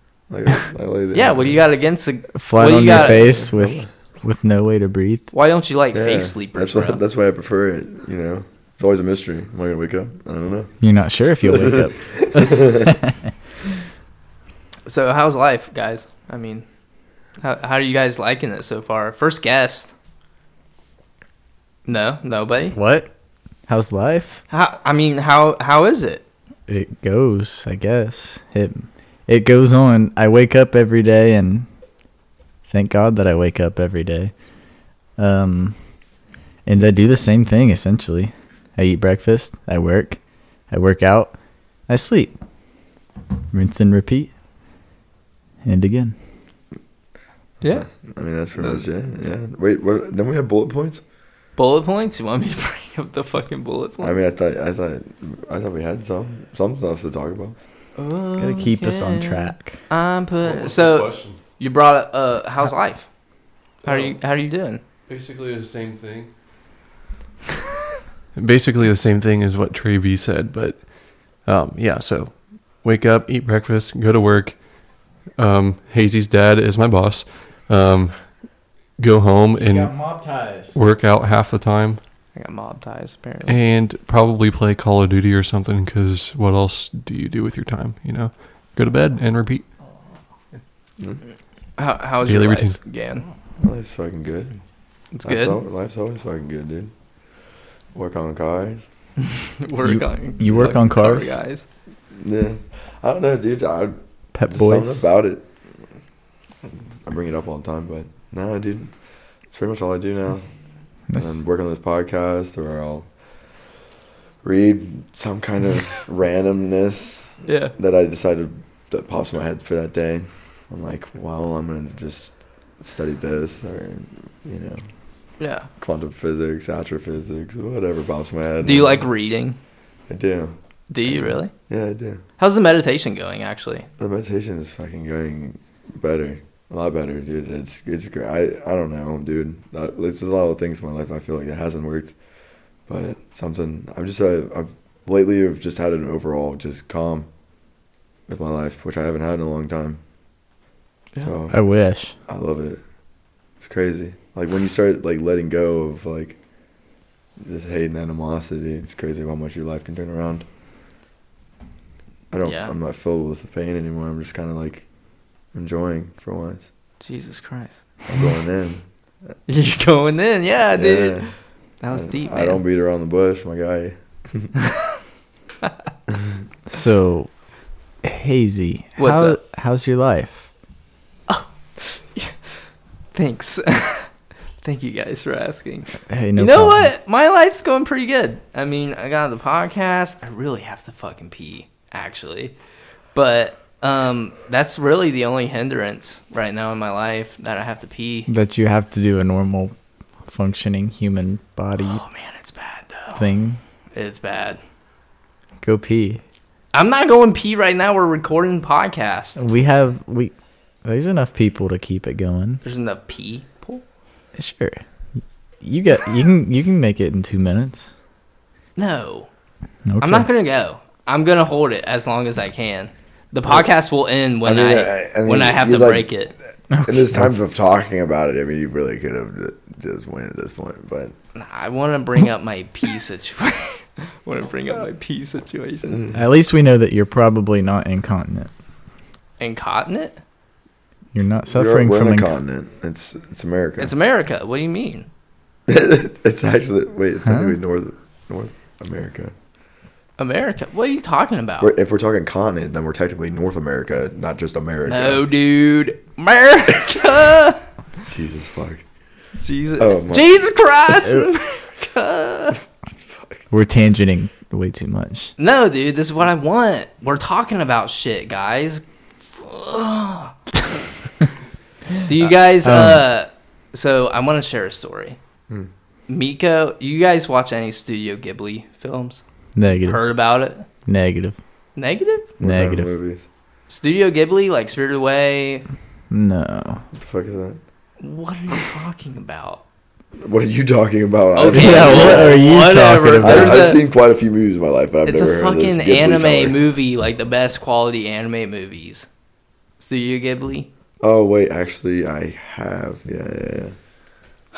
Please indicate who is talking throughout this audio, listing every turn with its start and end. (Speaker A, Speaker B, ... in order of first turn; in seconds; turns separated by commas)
Speaker A: 0.3-1.6, Speaker B: 1.1-3.4, Speaker C: 2.3-5.3, Speaker A: 2.9-3.9, Speaker B: 5.3-7.0, Speaker A: 5.9-10.8, Speaker C: 10.8-13.3, Speaker A: 11.4-12.9, Speaker B: 14.9-16.6, Speaker B: 17.4-19.9, Speaker B: 21.9-22.8, Speaker C: 22.7-23.1, Speaker C: 23.7-24.4, Speaker B: 24.5-26.2, Speaker C: 26.7-31.7, Speaker C: 32.7-34.3, Speaker C: 35.2-35.8, Speaker C: 36.6-40.2, Speaker C: 40.7-41.4, Speaker C: 41.9-42.3, Speaker C: 43.5-44.3, Speaker C: 45.6-46.1, Speaker B: 47.6-47.9, Speaker A: 47.6-51.0, Speaker B: 48.5-49.4, Speaker B: 51.5-54.3, Speaker A: 54.0-57.5, Speaker B: 58.0-63.1, Speaker C: 58.4-59.8, Speaker D: 60.4-61.4, Speaker B: 63.8-64.8, Speaker D: 63.8-64.2, Speaker D: 65.1-66.3, Speaker D: 68.3-74.7, Speaker D: 75.3-78.4, Speaker D: 79.0-79.9, Speaker C: 79.5-80.8, Speaker D: 80.7-82.0, Speaker B: 82.3-83.6, Speaker D: 83.5-89.6, Speaker B: 91.8-93.2, Speaker D: 92.2-92.8, Speaker A: 93.6-94.6, Speaker B: 95.1-95.6, Speaker A: 95.2-96.9, Speaker A: 97.9-98.9, Speaker B: 99.2-101.6, Speaker C: 99.8-101.4, Speaker A: 102.1-105.4, Speaker C: 104.3-105.0, Speaker A: 107.0-108.9, Speaker A: 109.5-110.5, Speaker C: 111.1-111.4, Speaker A: 111.2-113.1, Speaker A: 114.4-124.8, Speaker B: 117.5-117.7, Speaker B: 125.4-125.7, Speaker A: 125.8-129.1, Speaker B: 128.6-129.6, Speaker A: 130.1-132.2, Speaker B: 130.9-131.5, Speaker B: 132.4-133.9, Speaker A: 134.0-142.1, Speaker A: 142.9-147.3, Speaker A: 148.3-150.0, Speaker A: 151.2-151.6, Speaker C: 151.5-152.1, Speaker A: 152.3-152.8, Speaker A: 153.6-156.4, Speaker A: 157.4-160.4, Speaker A: 162.3-164.9, Speaker B: 162.4-162.7, Speaker A: 165.5-166.7, Speaker B: 167.0-167.8, Speaker A: 168.1-168.8, Speaker B: 169.5-172.6, Speaker A: 170.7-171.3, Speaker A: 171.9-174.5, Speaker A: 176.1-176.4, Speaker C: 176.7-177.3, Speaker C: 178.0-180.5, Speaker B: 179.0-179.4, Speaker B: 181.3-182.4, Speaker B: 183.1-184.1, Speaker B: 184.6-192.6, Speaker C: 186.1-186.9, Speaker B: 193.1-198.3, Speaker C: 198.3-199.7, Speaker C: 200.3-202.0, Speaker B: 201.8-203.2, Speaker C: 203.1-203.6, Speaker B: 203.9-204.6, Speaker C: 205.6-206.2, Speaker B: 206.7-209.4, Speaker C: 209.3-210.3, Speaker C: 210.8-212.6, Speaker B: 212.6-213.8, Speaker C: 214.3-214.8, Speaker C: 215.6-217.9, Speaker B: 218.8-219.3, Speaker C: 219.9-220.3, Speaker B: 220.0-226.3, Speaker A: 224.4-231.1, Speaker C: 226.7-227.3, Speaker B: 231.3-236.0, Speaker C: 236.1-238.5, Speaker B: 239.4-240.2, Speaker C: 241.1-242.3, Speaker A: 241.5-243.9, Speaker B: 243.8-245.1, Speaker A: 245.7-249.3, Speaker C: 247.2-247.6, Speaker B: 250.2-251.7, Speaker A: 251.6-255.2, Speaker B: 254.8-257.6, Speaker A: 258.1-258.8, Speaker B: 259.4-262.6, Speaker A: 259.8-260.3, Speaker A: 263.1-263.4, Speaker C: 263.5-265.3, Speaker B: 265.4-268.8, Speaker B: 269.4-270.4, Speaker B: 272.0-275.2, Speaker C: 272.6-273.1, Speaker B: 276.1-279.2, Speaker C: 279.5-280.0, Speaker B: 279.8-280.6, Speaker C: 280.9-281.4, Speaker B: 281.8-282.3, Speaker C: 282.4-282.9, Speaker A: 282.4-283.2, Speaker B: 283.7-285.6, Speaker C: 286.1-286.8, Speaker A: 286.9-287.6, Speaker B: 288.0-289.6, Speaker A: 290.2-292.4, Speaker B: 291.3-293.8, Speaker C: 291.5-293.8, Speaker A: 293.2-296.6, Speaker B: 295.0-299.1, Speaker B: 299.8-300.7, Speaker A: 301.0-303.8